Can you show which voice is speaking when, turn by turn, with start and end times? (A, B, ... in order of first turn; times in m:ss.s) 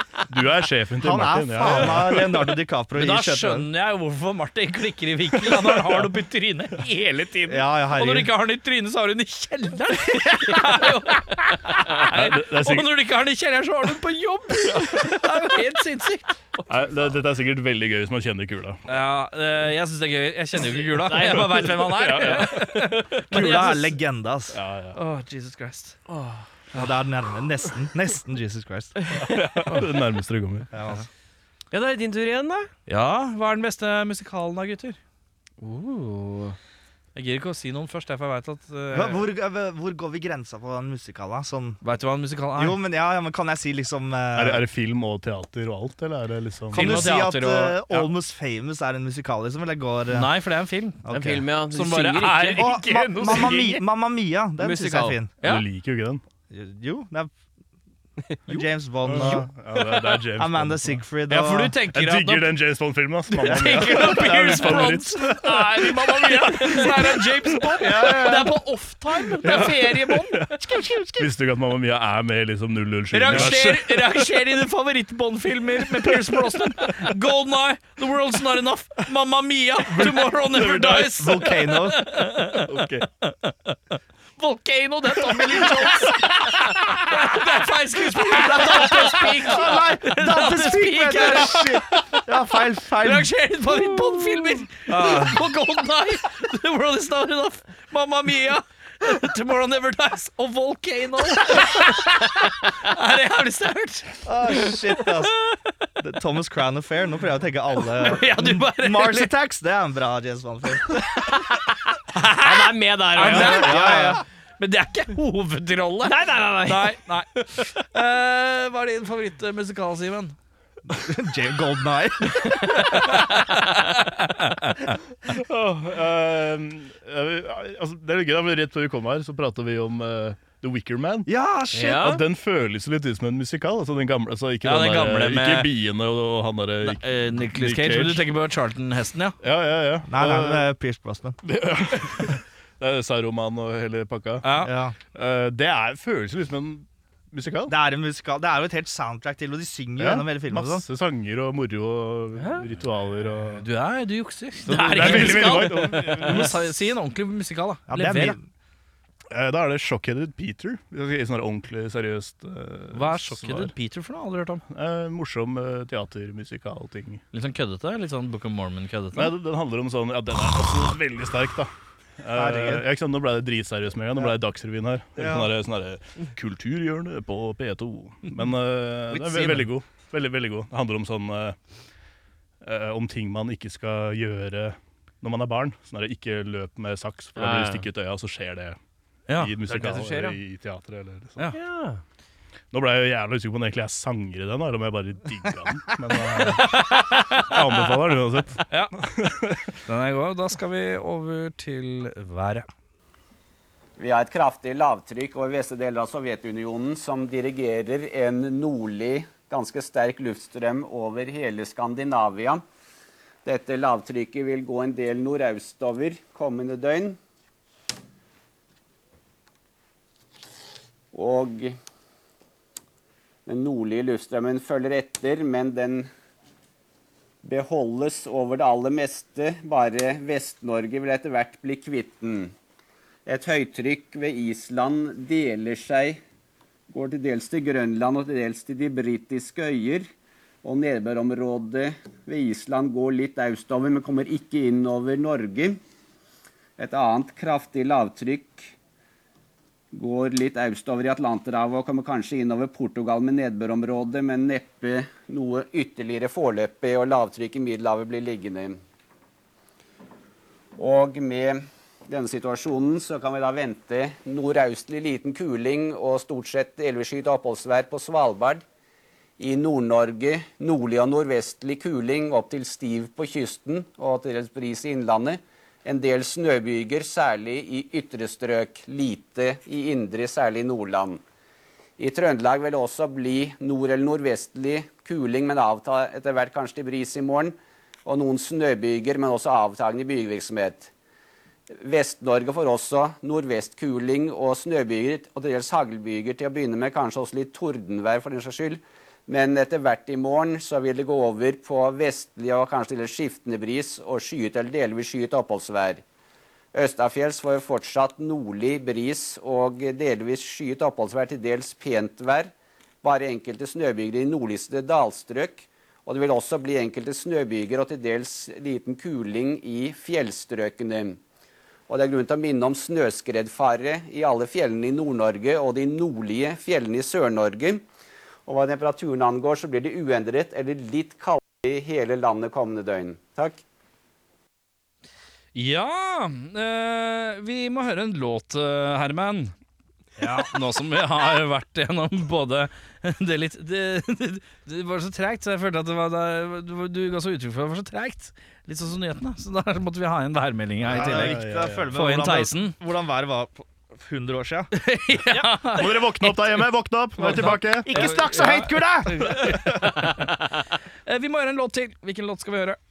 0:00.3-0:02.4 A
0:01.0-0:03.7 B
0:03.0-0:16.4 C
0:05.4-0:06.1 A
0:07.5-0:08.3 B
0:12.0-0:12.9 A
0:16.6-0:17.0 D
0:16.7-0:18.8 A
0:18.9-0:24.0 C
0:20.8-0:23.2 D
0:21.2-0:22.9 A
0:23.3-0:24.6 B
0:24.5-0:25.0 A
0:25.0-0:26.0 C
0:26.1-0:26.4 D
0:26.7-0:29.0 B
0:29.2-0:30.7 A
0:30.7-0:31.1 B
0:31.7-0:32.7 D
0:32.9-0:35.0 C
0:35.6-0:36.6 D
0:37.2-0:39.2 C
0:38.9-0:41.8 B
0:41.8-0:42.8 C
0:42.6-0:44.6 B
0:44.3-0:47.0 A
0:46.7-0:48.1 C
0:46.7-0:50.3 B
0:50.1-0:51.1 C
0:51.1-0:51.4 B
0:51.1-0:53.8 D
0:51.7-0:53.7 C
0:52.4-0:55.3 B
0:54.6-0:55.6 D
0:55.4-0:56.2 A
0:56.5-0:57.3 B
0:58.3-0:58.6 D
0:58.5-0:59.5 B
0:59.0-1:01.0 A
1:00.4-1:01.8 B
1:01.3-1:02.5 C
1:01.9-1:08.6 A
1:03.3-1:11.2 C
1:09.4-1:10.6 A
1:09.4-1:09.8 D
1:11.2-1:14.2 A
1:13.1-1:23.8 C
1:13.3-1:13.6 D
1:16.0-1:17.1 A
1:19.9-1:21.2 A
1:21.1-1:22.0 B
1:22.6-1:23.1 A
1:24.4-1:32.2 C
1:25.2-1:26.9 A
1:28.4-1:33.3 B
1:33.0-1:45.2 C
1:33.8-1:34.6 D
1:34.9-1:35.4 B
1:44.2-1:45.4 B
1:46.0-1:51.0 B
1:47.9-1:49.3 C
1:51.2-1:54.2 D
1:52.1-2:00.4 C
1:53.2-1:54.2 B
1:56.0-1:57.0 D
2:00.9-2:03.1 B
2:02.6-2:05.0 C
2:05.3-2:11.3 A
2:11.3-2:12.2 B
2:11.7-2:12.2 D
2:12.0-2:18.3 A
2:14.6-2:15.7 C
2:16.8-2:19.4 C
2:19.4-2:20.7 A
2:20.1-2:21.4 B
2:21.4-2:24.5 A
2:24.4-2:24.7 C
2:24.6-2:25.0 B
2:25.1-2:27.7 A
2:27.7-2:30.8 B
2:30.0-2:33.6 A
2:32.4-2:32.6 D
2:33.6-2:38.4 C
2:34.6-2:36.7 A
2:35.0-2:36.5 D
2:37.9-2:38.4 B
2:39.3-2:43.7 A
2:42.9-2:44.6 C
2:44.7-2:47.2 A
2:47.3-2:49.3 C
2:49.1-3:01.6 A
2:52.3-2:52.8 B
2:55.2-2:55.5 B
2:59.3-2:59.6 B
3:02.6-3:08.8 A
3:07.4-3:07.9 D
3:09.3-3:09.6 C
3:09.4-3:11.5 A
3:09.7-3:10.4 D
3:11.5-3:12.0 D
3:12.7-3:19.8 A
3:16.4-3:17.6 C
3:18.7-3:19.0 C
3:19.9-3:22.7 C
3:24.0-3:32.6 E
3:33.4-3:37.2 E
3:41.1-3:41.8 E
3:43.5-3:46.1 E
3:47.4-3:52.5 E
3:53.3-3:56.2 E
3:56.9-4:00.1 E
4:00.6-4:05.8 E
4:06.8-4:08.7 E
4:09.9-4:18.8 E
4:20.8-4:28.6 E
4:29.4-4:41.2 E
4:42.0-4:47.5 E
4:48.0-4:50.9 E
4:51.8-5:06.0 E
5:06.7-5:12.5 E
5:13.0-5:21.2 E
5:21.9-5:27.8 E
5:28.5-5:33.6 E
5:35.6-5:39.5 C
5:40.2-5:40.5 B
5:40.4-5:51.4 C
5:50.8-5:51.9 A
5:50.9-5:54.7 B
5:51.9-5:52.8 C
5:54.7-5:56.7 C
5:55.6-5:58.0 A
5:57.2-6:00.4 C
5:57.2-5:59.6 B
6:01.1-6:02.8 C